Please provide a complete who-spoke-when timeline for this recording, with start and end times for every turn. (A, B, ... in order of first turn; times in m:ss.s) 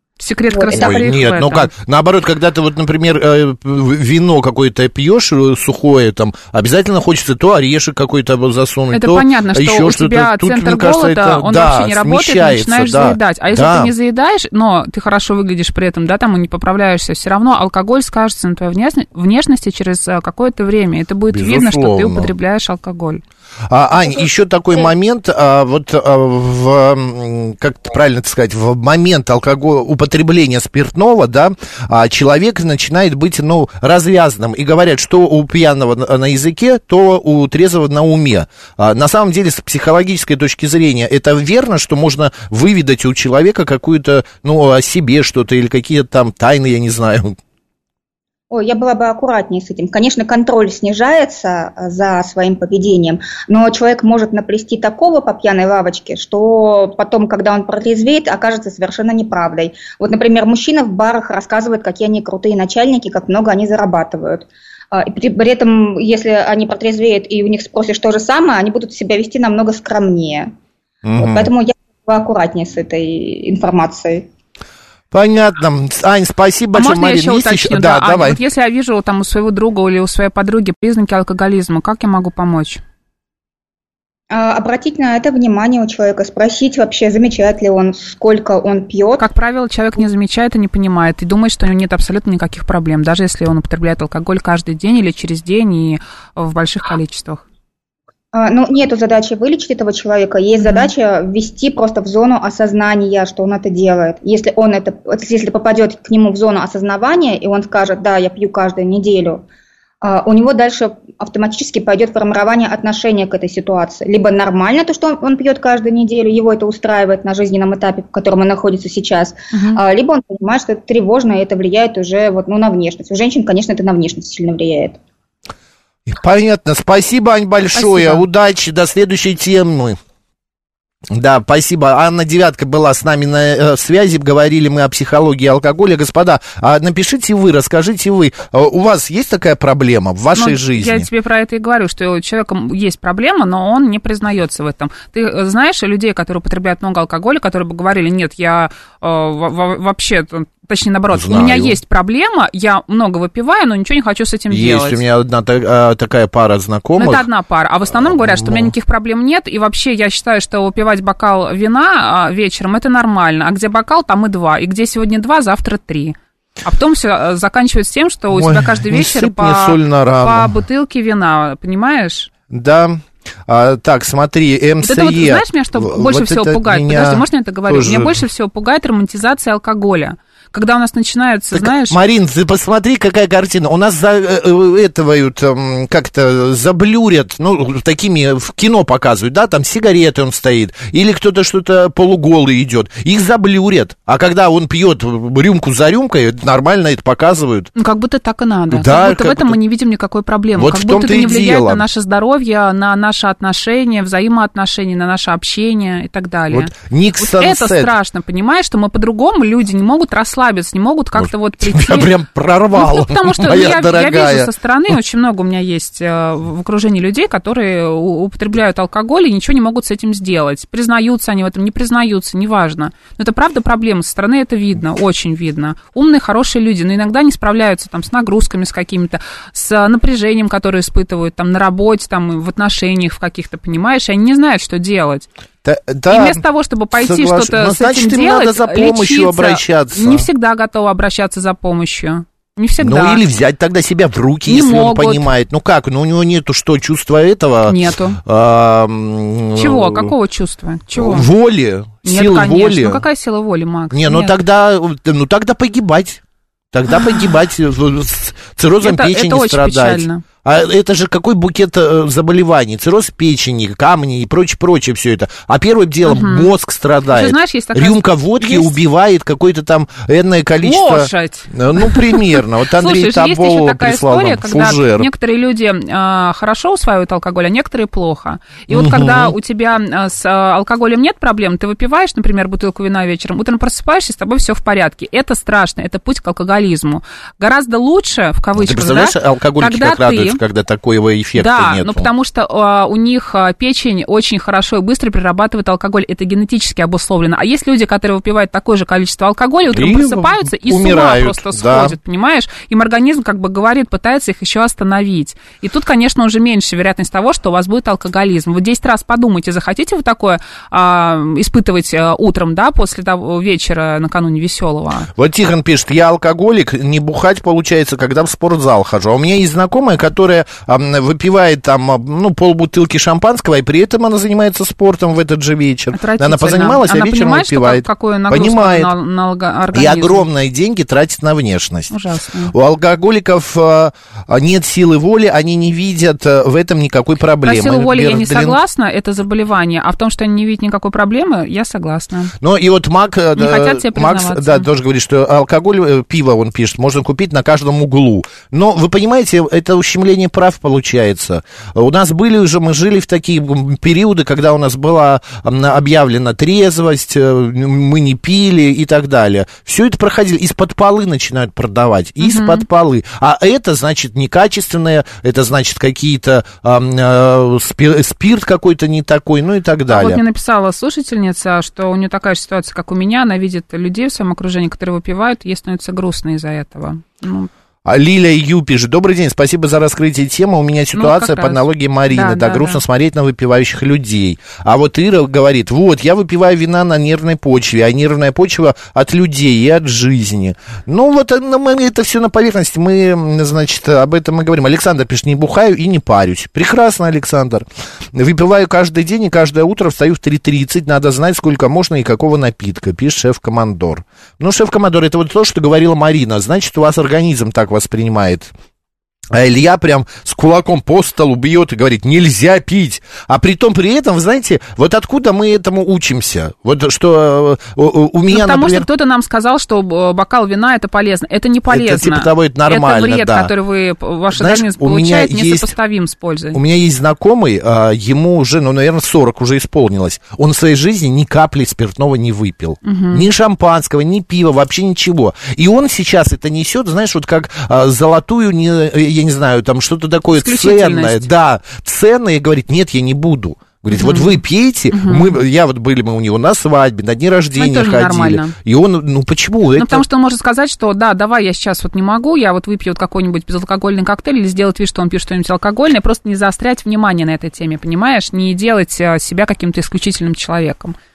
0:00.2-0:01.7 A
0:00.5-0:01.0 B
0:00.7-0:13.9 C
0:08.9-0:23.2 A
0:21.3-0:22.3 C
0:23.7-0:47.4 C
0:48.5-1:10.5 B
1:11.0-1:11.5 C
1:11.2-1:14.3 B
1:15.1-1:18.4 C
1:16.7-1:22.8 A
1:24.3-1:29.3 B
1:29.2-1:37.4 A
1:38.3-1:49.4 B
1:40.6-1:40.9 A
1:50.0-2:05.0 B
1:59.5-1:59.8 A
2:06.1-2:10.0 C
2:07.7-2:08.2 A
2:11.1-2:21.1 C
2:20.4-2:35.0 A
2:31.1-2:31.8 C
2:34.5-2:37.3 C
2:37.0-2:52.3 A
2:37.9-2:38.7 C
2:48.3-2:50.5 C
2:52.5-2:58.2 C
2:54.8-3:02.0 A
3:01.5-3:17.7 C
3:17.8-3:32.1 A
3:18.7-3:19.6 C
3:20.6-3:21.8 C
3:26.5-3:27.9 C
3:31.2-3:34.5 C
3:32.7-3:55.3 A
3:55.6-3:56.4 C
3:56.1-4:03.2 A
3:56.9-4:00.3 C
4:02.8-4:10.1 C
4:04.5-4:05.3 A
4:07.7-4:08.2 A
4:09.6-4:11.3 A
4:10.9-4:13.0 C
4:12.0-4:14.4 A
4:13.9-4:35.1 C
4:18.8-4:20.2 A
4:26.0-4:26.5 A
4:27.1-4:28.8 A
4:30.6-4:50.4 A
4:38.7-4:39.3 C
4:48.6-4:52.1 C
4:51.3-5:15.1 A
4:59.7-5:01.9 C
5:15.2-5:28.9 C
5:25.9-5:30.3 A
5:29.7-5:31.9 C
5:31.9-5:32.5 A
5:32.5-5:38.6 C
5:37.4-5:42.3 A
5:42.4-6:10.2 C
5:43.4-5:44.7 A
6:02.2-6:02.6 A
6:09.9-6:17.5 A
6:17.8-6:48.5 C
6:21.0-6:22.8 A
6:49.3-6:58.8 C
6:58.3-7:06.6 A
7:01.7-7:03.5 C
7:04.3-7:05.7 C
7:06.5-7:30.0 C
7:12.8-7:13.3 A
7:20.3-7:21.3 A
7:23.9-7:24.4 A
7:24.9-7:25.4 A
7:27.6-7:28.5 A
7:29.8-7:40.9 A